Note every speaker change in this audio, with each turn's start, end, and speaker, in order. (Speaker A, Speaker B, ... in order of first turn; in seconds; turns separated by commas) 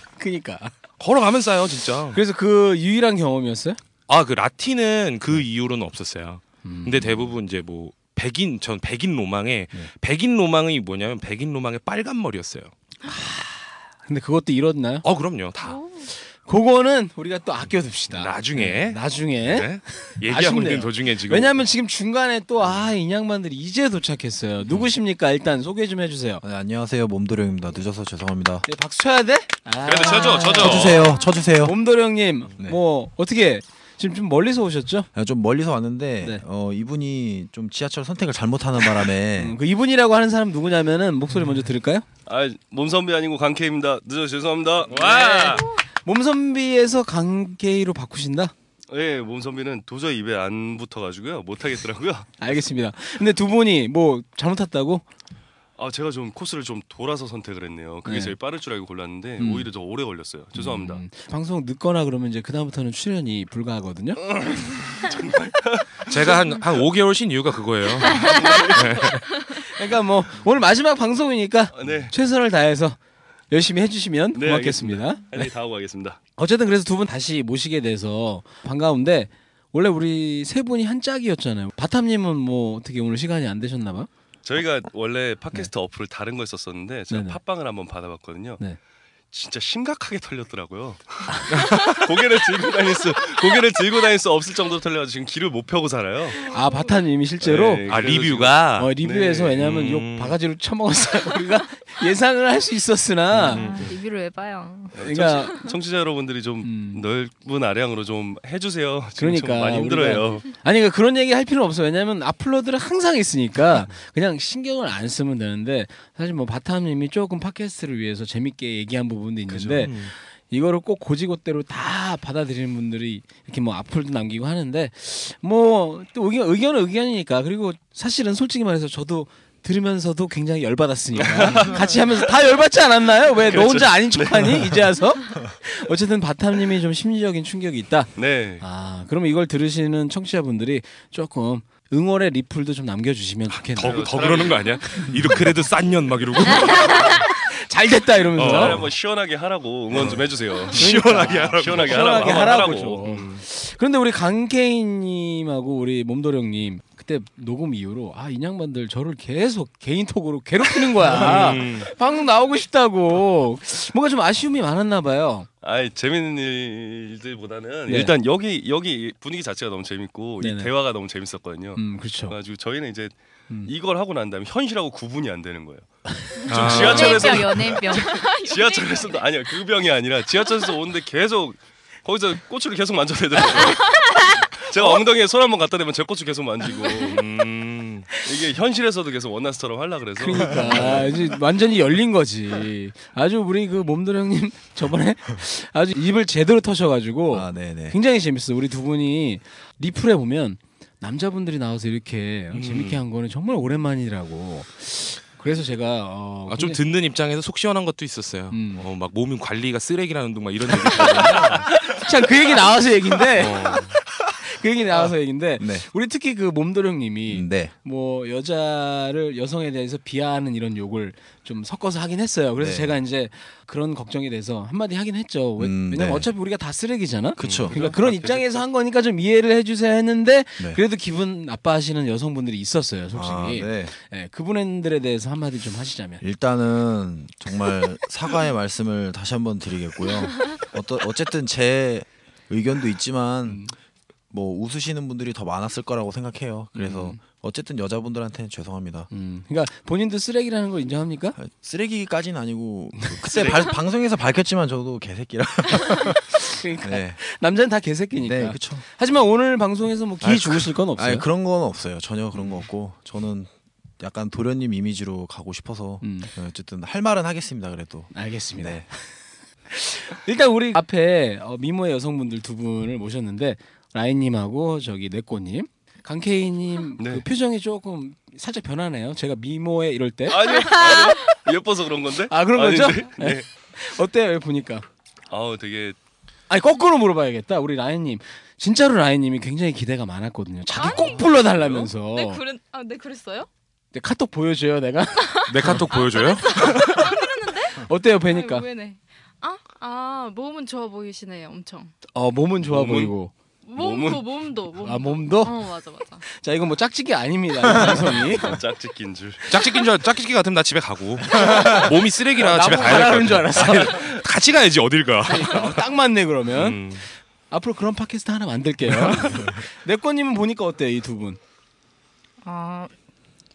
Speaker A: 0.2-0.7, Speaker B: 1.0-2.2, Speaker A: 2.1-3.8, Speaker B: 4.1-12.7, Speaker A: 6.6-7.3, Speaker A: 13.1-15.1, Speaker B: 15.0-15.8, Speaker C: 15.6-16.1, Speaker A: 16.1-26.4, Speaker B: 18.1-21.6, Speaker D: 26.4-28.7, Speaker A: 28.7-35.1, Speaker B: 29.9-31.1, Speaker D: 30.6-31.8, Speaker C: 31.0-31.5, Speaker D: 35.1-39.6, Speaker A: 39.4-42.1, Speaker E: 42.3-45.6, Speaker B: 44.9-45.6, Speaker A: 44.9-48.5, Speaker E: 48.9-52.3, Speaker A: 52.4-55.0, Speaker E: 55.8-61.0, Speaker A: 58.0-58.4, Speaker A: 59.4-59.7, Speaker A: 60.5-64.2, Speaker E: 64.3-66.4, Speaker B: 66.1-69.2, Speaker E: 68.0-69.2, Speaker A: 69.7-73.0, Speaker E: 71.7-72.1, Speaker A: 73.5-75.5, Speaker E: 74.3-76.2, Speaker A: 76.4-84.1, Speaker E: 84.5-88.6, Speaker A: 87.1-87.4, Speaker E: 89.3-96.5, Speaker C: 96.4-97.0, Speaker A: 96.5-97.8, Speaker E: 97.4-99.6, Speaker B: 97.9-99.0, Speaker A: 98.8-103.7, Speaker B: 99.6-100.4, Speaker B: 103.4-103.9, Speaker F: 103.5-105.0, Speaker E: 104.9-110.5, Speaker A: 105.0-105.6, Speaker A: 106.6-107.0, Speaker A: 109.2-144.2, Speaker B: 119.5-120.1, Speaker E: 131.2-132.3, Speaker E: 133.4-134.9, Speaker E: 138.2-138.6, Speaker B: 143.6-147.2, Speaker E: 143.8-144.8, Speaker F: 146.6-146.9, Speaker A: 146.7-148.9, Speaker E: 148.4-153.1, Speaker B: 148.4-148.9, Speaker B: 149.9-152.4, Speaker A: 150.7-165.5, Speaker B: 153.1-153.4, Speaker E: 161.1-161.6, Speaker B: 161.1-161.9, Speaker E: 165.6-175.9, Speaker A: 167.9-168.1, Speaker A: 170.4-170.7, Speaker A: 171.8-172.4, Speaker B: 176.5-177.5, Speaker E: 176.5-183.9, Speaker F: 176.6-178.2, Speaker C: 177.9-179.3, Speaker E: 184.6-187.2, Speaker B: 187.0-188.1, Speaker E: 188.2-191.3, Speaker A: 190.2-206.8, Speaker D: 197.3-198.0, Speaker B: 202.5-203.0, Speaker B: 206.5-211.7, Speaker A: 208.5-208.8, Speaker A: 211.4-213.8, Speaker B: 213.3-214.0, Speaker A: 214.4-236.2, Speaker D: 215.6-215.9, Speaker D: 217.3-217.7, Speaker D: 222.6-223.0, Speaker D: 225.6-226.3, Speaker D: 227.4-227.7, Speaker B: 227.4-227.7, Speaker E: 227.6-228.6, Speaker D: 233.1-233.9, Speaker D: 236.2-243.7, Speaker A: 243.5-243.7, Speaker D: 244.3-249.1, Speaker A: 246.8-247.2, Speaker A: 249.1-251.4, Speaker D: 251.4-257.2, Speaker E: 253.3-253.7, Speaker A: 256.3-261.3, Speaker D: 258.2-258.8, Speaker D: 260.2-268.9, Speaker A: 266.0-266.3, Speaker A: 268.1-268.9, Speaker A: 269.7-281.1, Speaker E: 277.0-277.3, Speaker E: 280.3-283.5, Speaker A: 282.3-284.9, Speaker E: 285.3-286.0, Speaker A: 286.5-292.4, Speaker C: 290.7-293.5, Speaker E: 291.4-291.9, Speaker A: 293.9-295.8, Speaker C: 295.2-301.9, Speaker B: 295.5-297.1, Speaker A: 297.8-298.7, Speaker A: 302.1-303.3, Speaker E: 302.6-303.1, Speaker C: 303.6-306.2, Speaker E: 303.8-304.3, Speaker A: 304.8-305.6, Speaker A: 306.2-308.6, Speaker E: 307.7-309.8, Speaker B: 309.5-315.9, Speaker A: 311.3-314.1, Speaker E: 313.7-314.2, Speaker A: 315.3-316.8, Speaker B: 316.5-317.1, Speaker A: 317.5-321.4, Speaker B: 319.0-319.5, Speaker F: 322.4-322.9